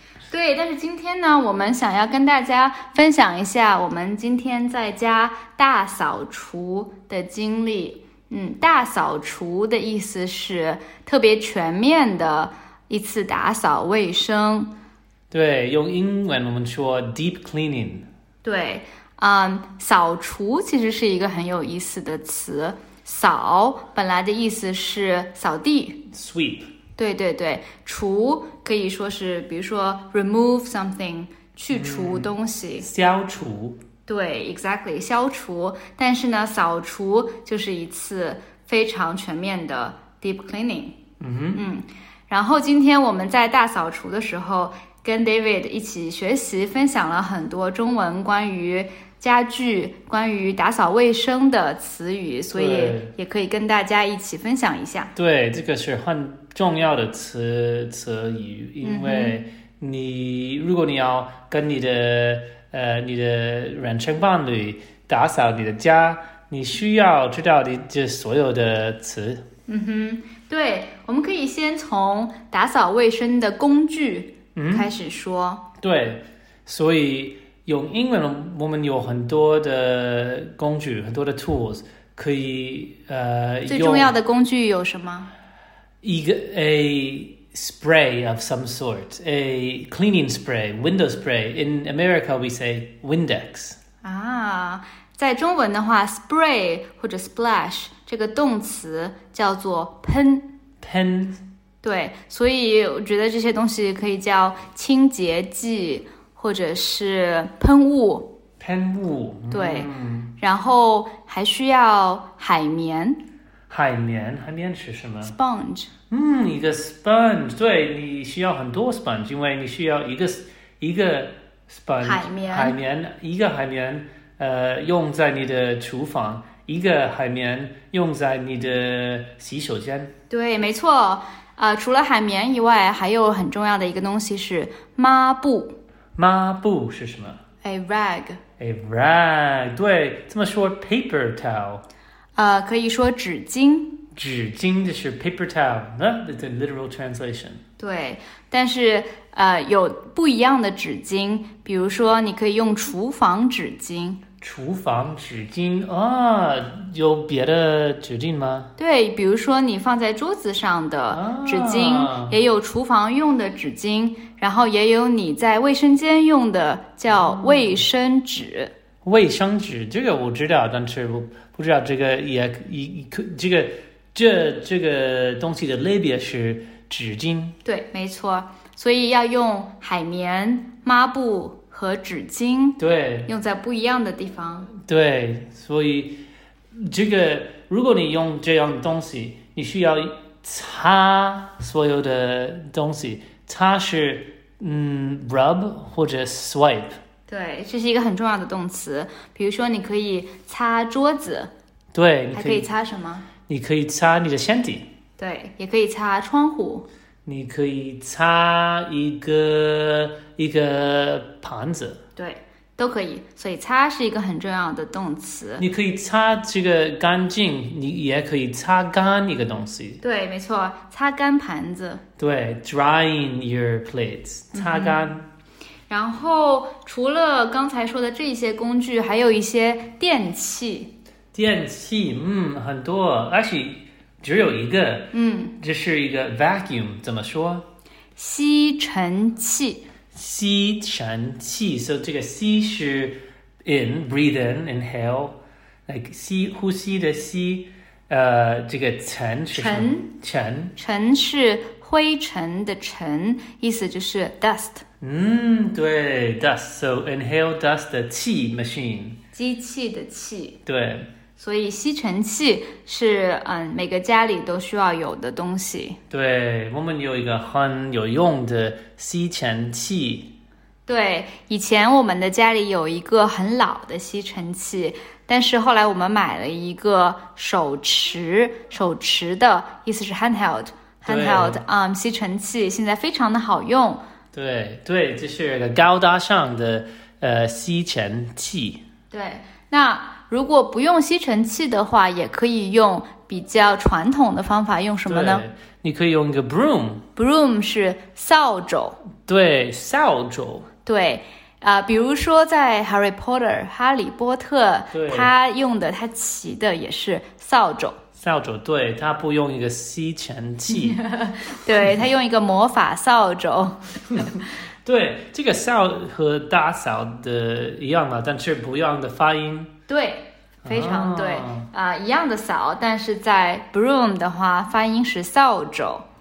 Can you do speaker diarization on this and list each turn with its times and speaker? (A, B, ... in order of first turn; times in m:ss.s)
0:00.3-0:14.7 A
0:15.3-0:18.1 B
0:18.4-0:26.0 A
0:26.1-0:26.7 B
0:27.0-0:32.9 A
0:31.7-0:33.8 B
0:34.0-0:41.0 A
0:41.2-0:41.6 B
0:41.5-0:55.1 A
0:52.5-0:53.1 B
0:55.2-1:09.4 B
0:58.8-0:59.4 A
1:09.7-1:15.6 A
1:14.5-1:14.9 B
1:15.8-1:24.1 B
1:23.6-1:25.3 A
1:26.0-1:33.8 B
1:34.0-1:40.5 A
1:40.8-1:41.4 B
1:41.8-1:48.3 A
1:48.6-1:50.4 B
1:49.5-1:53.2 A
1:53.7-1:55.3 B
1:55.2-1:55.9 A
1:56.1-2:10.1 B
2:02.0-2:02.8 A
2:10.3-2:15.8 A
2:16.2-2:17.4 B
2:17.6-2:18.4 A
2:18.6-2:21.8 B
2:22.4-2:24.0 A
2:24.1-2:27.6 B
2:27.8-2:34.2 A
2:34.4-2:38.7 B
2:38.8-2:48.7 A
2:41.1-2:42.3 B
2:47.1-2:47.8 B
2:49.0-2:57.6 B
2:57.6-3:04.7 A
3:02.8-3:03.3 B
3:04.8-3:17.0 B
3:17.3-3:21.5 A
3:21.9-3:22.7 B
3:22.3-3:23.3 A
3:23.5-3:24.9 B
3:25.2-3:26.9 A
3:27.2-3:32.0 B
3:32.2-3:35.6 A
3:35.6-3:40.0 B
3:40.0-3:42.0 A
3:42.2-3:45.2 B
3:44.5-3:45.0 A
3:45.9-3:50.9 A
3:51.3-3:57.6 B
3:55.1-3:55.6 A
3:58.2-3:59.8 A
4:00.1-4:10.7 B
4:09.5-4:10.1 A
4:10.8-4:14.8 A
4:15.0-4:19.2 B
4:19.3-4:20.6 A
4:20.6-4:21.1 B
4:21.4-4:26.0 A
4:26.1-4:30.3 B
4:30.9-4:44.0 A
4:41.0-4:41.6 B
4:44.3-4:48.8 B
4:49.1-4:55.4 A
4:55.0-4:57.0 B
4:57.2-4:59.0 A
4:59.2-5:00.7 B
5:00.8-5:08.0 A
5:04.9-5:05.3 B
5:08.2-5:11.0 B
5:10.7-5:14.4 A
5:14.8-5:19.7 B
5:19.9-5:26.0 A
5:20.6-5:21.7 B